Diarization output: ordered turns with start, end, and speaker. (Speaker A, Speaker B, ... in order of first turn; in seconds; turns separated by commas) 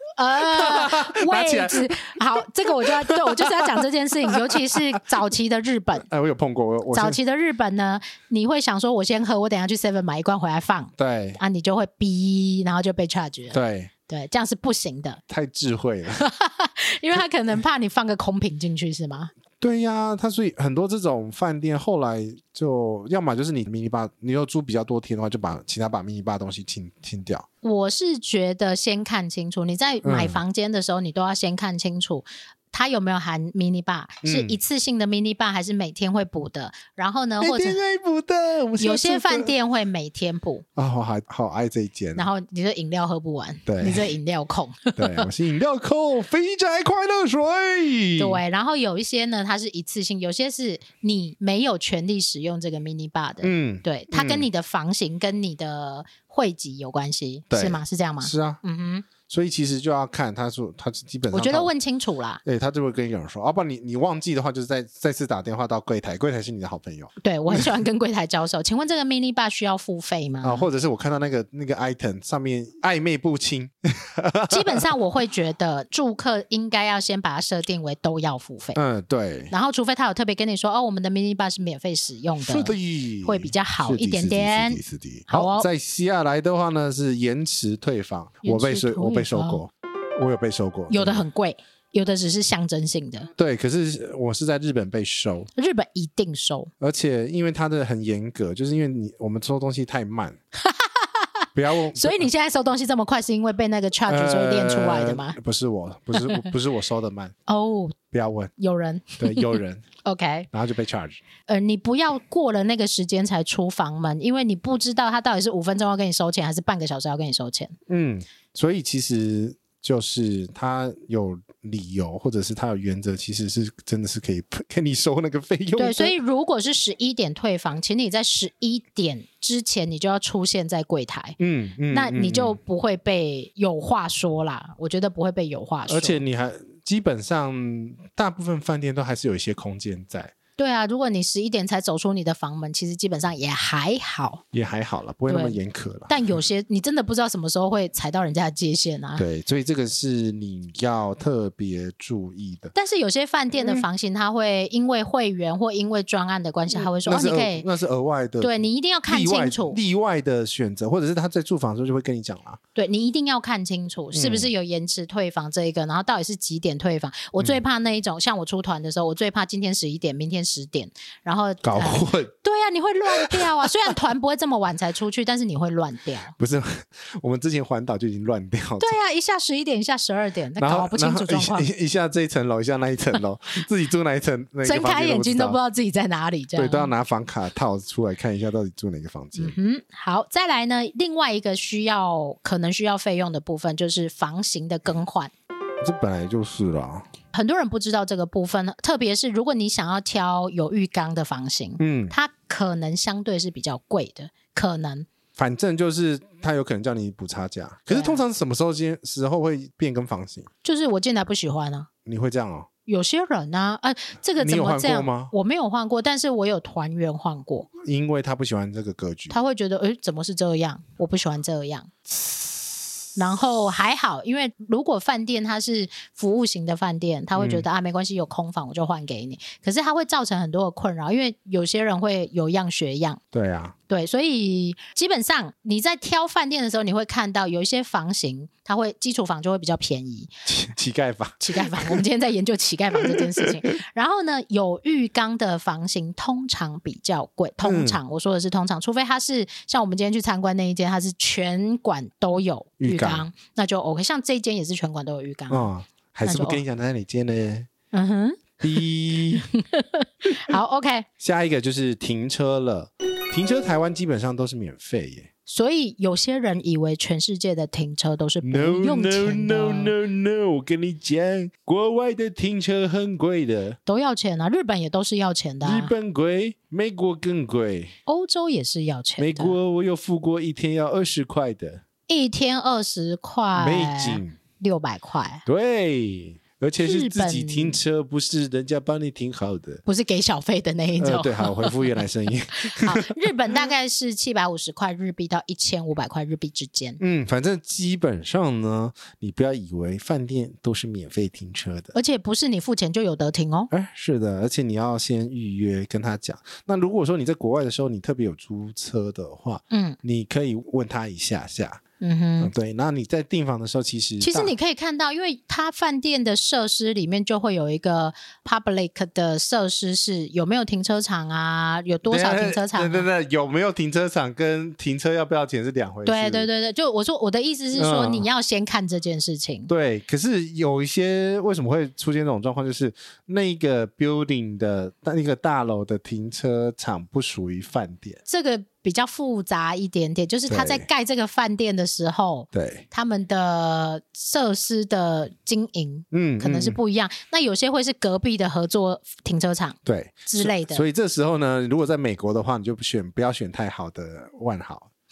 Speaker A: 0.2-6.1, Speaker B: 0.4-4.8, Speaker B: 6.1-7.2, Speaker A: 6.9-15.2, Speaker B: 11.0-11.4, Speaker B: 13.5-13.9, Speaker B: 15.3-16.2, Speaker A: 16.2-19.3, Speaker B: 19.6-27.5, Speaker A: 27.6-37.8, Speaker B: 30.0-30.4, Speaker B: 34.2-34.6, Speaker B: 37.4-39.5, Speaker A: 38.8-40.6, Speaker B: 40.8-42.3, Speaker A: 42.1-45.3, Speaker B: 43.7-44.1, Speaker B: 45.0-48.4, Speaker A: 48.2-59.1, Speaker B: 53.4-54.5, Speaker B: 57.5-58.6, Speaker B: 59.2-61.7, Speaker A: 61.3-62.4, Speaker B: 62.4-67.7, Speaker A: 67.2-70.7, Speaker B: 70.4-74.8, Speaker A: 74.5-78.8, Speaker B: 78.8-79.5, Speaker A: 79.5-85.7, Speaker B: 82.4-91.2, Speaker A: 88.4-89.6, Speaker A: 90.9-93.3, Speaker B: 93.4-95.5, Speaker A: 95.6-96.7, Speaker B: 96.8-100.4, Speaker A: 100.6-101.3, Speaker B: 101.5-102.3, Speaker A: 101.9-105.4, Speaker B: 104.1-107.3, Speaker A: 107.5-108.0, Speaker B: 108.1-108.5, Speaker A: 108.6-110.5, Speaker B: 109.2-109.8, Speaker B: 110.5-111.2, Speaker A: 111.5-117.7, Speaker B: 117.9-126.2, Speaker A: 125.8-131.4, Speaker B: 131.4-132.6, Speaker A: 131.9-136.2, Speaker B: 135.9-140.3, Speaker A: 140.6-144.4, Speaker B: 144.5-146.3, Speaker A: 145.3-149.2, Speaker B: 149.2-152.7, Speaker A: 152.7-157.7, Speaker B: 153.6-153.9, Speaker B: 156.7-158.6, Speaker A: 158.4-159.8, Speaker B: 159.1-162.6, Speaker A: 162.8-176.3, Speaker B: 164.1-164.5, Speaker B: 171.6-172.3, Speaker B: 173.1-173.9, Speaker B: 176.4-179.0, Speaker A: 178.8-181.7, Speaker B: 180.6-185.6, Speaker A: 184.6-186.9, Speaker B: 186.6-189.6, Speaker A: 189.4-195.3, Speaker B: 195.8-197.1, Speaker A: 197.3-205.1, Speaker B: 201.8-202.2, Speaker B: 205.4-210.5, Speaker A: 207.9-208.2, Speaker A: 210.6-211.9, Speaker B: 212.1-212.7, Speaker A: 212.9-217.7, Speaker B: 214.4-215.3, Speaker B: 217.8-219.4, Speaker A: 219.3-221.9, Speaker B: 222.1-222.8, Speaker A: 223.2-233.2, Speaker B: 227.3-227.7, Speaker B: 233.3-233.8, Speaker A: 233.9-240.3, Speaker B: 240.5-242.0, Speaker A: 241.4-255.7, Speaker B: 243.0-243.5, Speaker B: 247.6-248.0, Speaker B: 252.8-253.3, Speaker B: 255.5-257.7, Speaker A: 256.2-256.6, Speaker A: 257.9-261.1, Speaker B: 258.6-259.5, Speaker B: 261.2-265.3, Speaker A: 265.5-269.9, Speaker B: 268.4-273.8, Speaker A: 273.9-275.9, Speaker B: 275.6-277.9, Speaker A: 278.1-279.6, Speaker B: 279.2-281.8, Speaker A: 282.1-285.4, Speaker B: 283.6-284.4, Speaker B: 285.5-289.8, Speaker A: 286.8-287.8, Speaker A: 289.9-292.1, Speaker B: 291.0-293.2, Speaker A: 292.7-297.0, Speaker B: 297.0-301.9, Speaker A: 301.9-303.7, Speaker B: 303.7-311.8, Speaker A: 309.7-310.0, Speaker A: 312.0-312.5, Speaker B: 312.4-314.5, Speaker A: 314.2-323.1, Speaker B: 322.1-326.5, Speaker A: 326.1-329.7, Speaker B: 327.7-328.3, Speaker B: 329.7-338.2, Speaker A: 338.3-350.9, Speaker B: 340.5-340.9, Speaker B: 342.5-342.9, Speaker B: 346.1-346.8, Speaker B: 349.9-354.9